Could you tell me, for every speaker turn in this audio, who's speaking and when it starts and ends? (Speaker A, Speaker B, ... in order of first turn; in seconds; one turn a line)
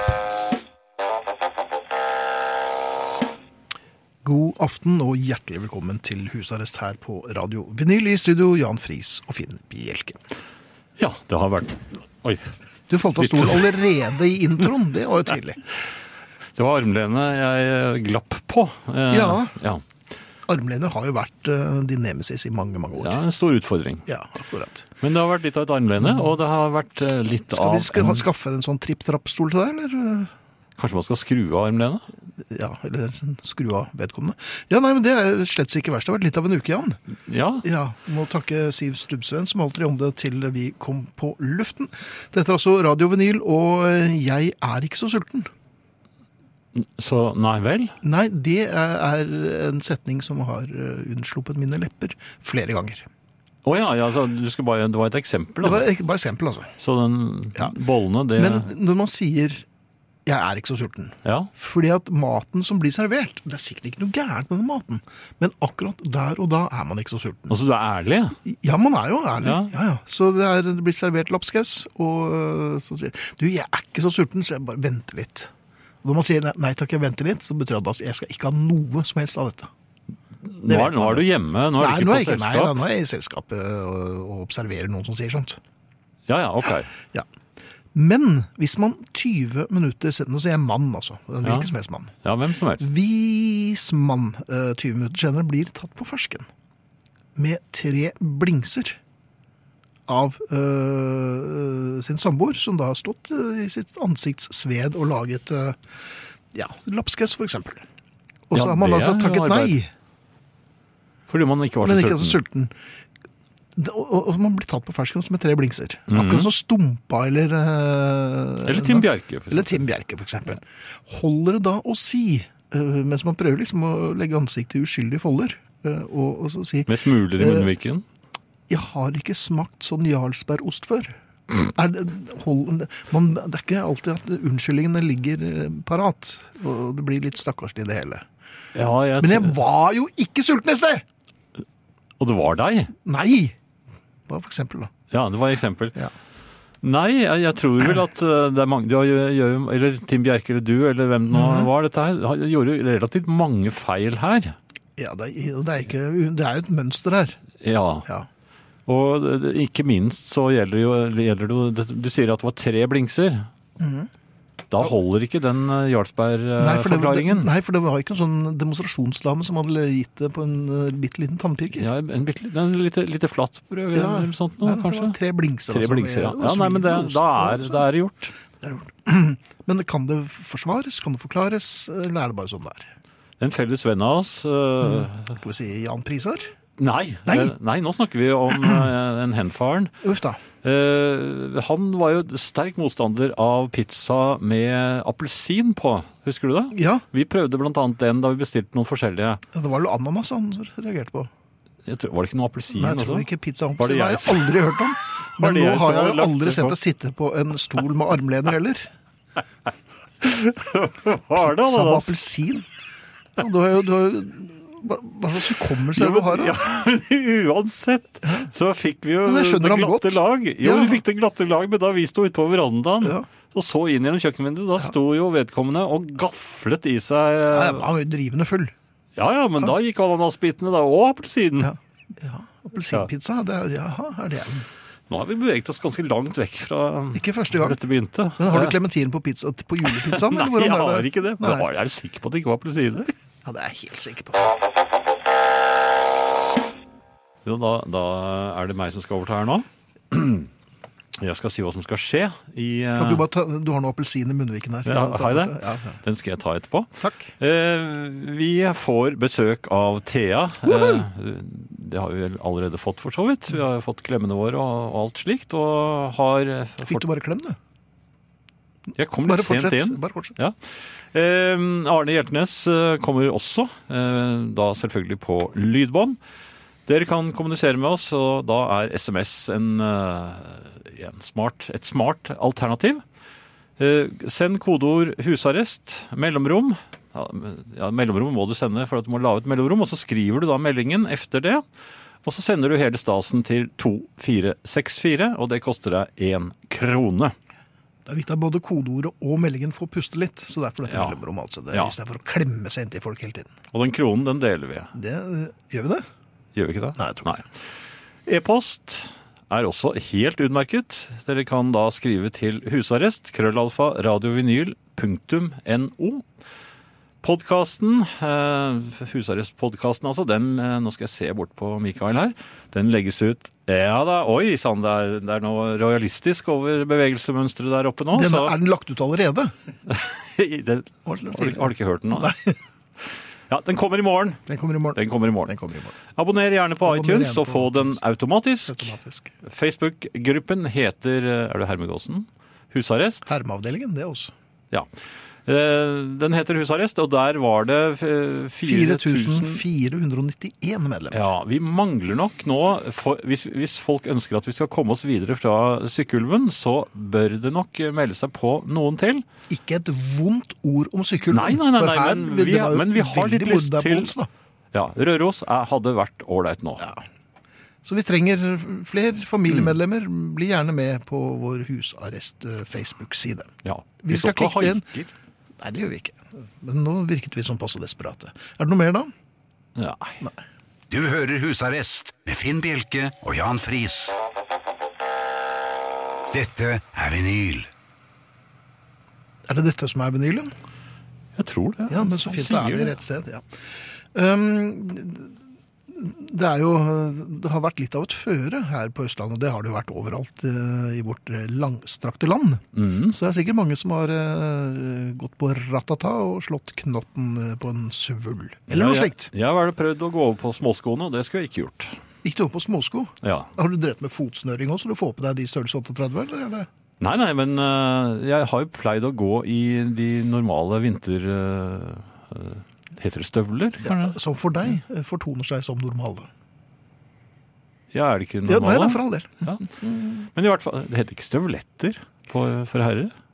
Speaker A: 4.2-10.2
Speaker B: 11.0-12.4
Speaker A: 12.9-15.6
Speaker B: 13.2-13.7
Speaker B: 16.6-19.8
Speaker A: 19.1-19.5
Speaker A: 20.5-23.2
Speaker B: 23.0-24.0
Speaker A: 24.1-24.9
Speaker B: 25.0-28.2
Speaker A: 26.0-26.3
Speaker A: 27.5-30.3
Speaker B: 30.8-32.0
Speaker A: 32.4-37.0
Speaker B: 37.3-37.6
Speaker A: 37.6-45.5
Speaker B: 46.8-47.9
Speaker A: 48.0-53.1
Speaker B: 53.6-55.9
Speaker A: 55.6-56.7
Speaker B: 56.8-58.7
Speaker A: 58.4-59.6
Speaker A: 60.2-67.6
Speaker B: 61.2-61.5
Speaker B: 67.5-68.4
Speaker A: 68.4-75.5
Speaker B: 69.4-69.7
Speaker A: 76.0-79.7
Speaker B: 80.4-82.8
Speaker A: 80.7-81.2
Speaker A: 81.8-85.6
Speaker B: 86.3-86.9
Speaker A: 86.7-87.3
Speaker A: 87.9-92.1
Speaker B: 91.4-91.7
Speaker B: 92.2-92.8
Speaker A: 92.8-96.5
Speaker A: 97.3-99.0
Speaker A: 100.1-105.9
Speaker A: 106.5-107.8
Speaker A: 108.5-109.9
Speaker B: 108.5-109.8
Speaker B: 111.3-112.4
Speaker A: 111.8-112.7
Speaker A: 113.8-127.7
Speaker B: 116.1-116.5
Speaker B: 118.6-119.8
Speaker B: 126.9-128.0
Speaker A: 128.7-138.2
Speaker B: 138.7-139.5
Speaker A: 139.2-141.0
Speaker B: 142.2-142.9
Speaker A: 143.0-143.6
Speaker A: 144.3-144.9
Speaker B: 145.1-145.9
Speaker B: 146.8-154.5
Speaker A: 151.3-151.7
Speaker A: 155.0-157.4
Speaker B: 157.6-158.0
Speaker B: 158.9-163.5
Speaker A: 163.8-164.1
Speaker B: 164.7-167.5
Speaker A: 166.6-171.9
Speaker B: 171.7-175.2
Speaker A: 173.9-177.8
Speaker B: 175.7-178.3
Speaker A: 178.6-182.9
Speaker B: 183.4-185.4
Speaker A: 184.8-186.5
Speaker B: 186.8-189.9
Speaker A: 187.2-187.5
Speaker A: 188.5-188.9
Speaker A: 190.0-190.4
Speaker B: 190.6-199.4
Speaker A: 196.7-197.0
Speaker A: 199.5-201.3
Speaker B: 201.8-203.2
Speaker A: 202.7-208.9
Speaker B: 203.8-204.8
Speaker B: 205.4-206.8
Speaker B: 210.2-212.1
Speaker A: 211.3-212.7
Speaker A: 213.4-216.6
Speaker B: 215.9-227.8
Speaker A: 218.2-218.5
Speaker A: 219.2-221.0
Speaker A: 223.0-223.3
Speaker A: 227.5-228.7
Speaker B: 229.2-231.7
Speaker A: 231.6-234.7
Speaker B: 235.1-238.8
Speaker A: 237.1-237.8
Speaker A: 238.4-241.7
Speaker B: 240.1-243.1
Speaker A: 243.4-244.5
Speaker B: 247.4-250.5
Speaker B: 251.2-253.2
Speaker A: 252.9-256.0
Speaker B: 254.9-267.0
Speaker A: 257.0-257.3
Speaker A: 260.6-261.1
Speaker A: 266.8-267.6
Speaker B: 269.0-270.5
Speaker A: 269.2-270.3
Speaker B: 271.1-276.2
Speaker B: 276.9-283.0
Speaker B: 283.8-291.6
Speaker B: 292.2-297.3
Speaker A: 298.1-303.5
Speaker B: 300.9-301.2
Speaker B: 303.7-304.9
Speaker A: 304.9-306.1
Speaker B: 306.5-307.4
Speaker A: 307.0-307.3
Speaker B: 308.2-316.2
Speaker B: 317.2-328.5
Speaker A: 328.1-329.5
Speaker B: 329.9-332.3
Speaker A: 331.1-332.5
Speaker B: 333.5-334.4
Speaker A: 334.5-335.9
Speaker B: 334.9-335.5
Speaker B: 336.1-338.9
Speaker A: 336.8-338.0
Speaker A: 338.6-339.3
Speaker B: 339.4-343.2
Speaker A: 343.2-344.3
Speaker B: 345.4-349.6
Speaker A: 348.6-351.2
Speaker B: 351.1-359.2
Speaker A: 359.5-364.3
Speaker B: 361.3-364.1
Speaker B: 364.7-366.8
Speaker A: 366.8-367.0
Speaker A: 367.8-373.5
Speaker B: 373.6-375.1
Speaker A: 374.0-374.8
Speaker A: 375.6-379.1
Speaker B: 379.8-380.2
Speaker C: 380.9-384.1
Speaker C: 386.3-387.7
Speaker A: 389.5-390.5
Speaker B: 391.4-392.9
Speaker A: 391.9-393.5
Speaker A: 394.1-395.3
Speaker A: 395.9-409.3
Speaker B: 402.7-403.1
Speaker B: 408.7-411.9
Speaker A: 412.2-416.7
Speaker B: 413.2-413.5
Speaker B: 417.0-424.2
Speaker A: 423.8-426.3
Speaker B: 427.9-429.7
Speaker A: 428.4-430.1
Speaker B: 430.2-433.1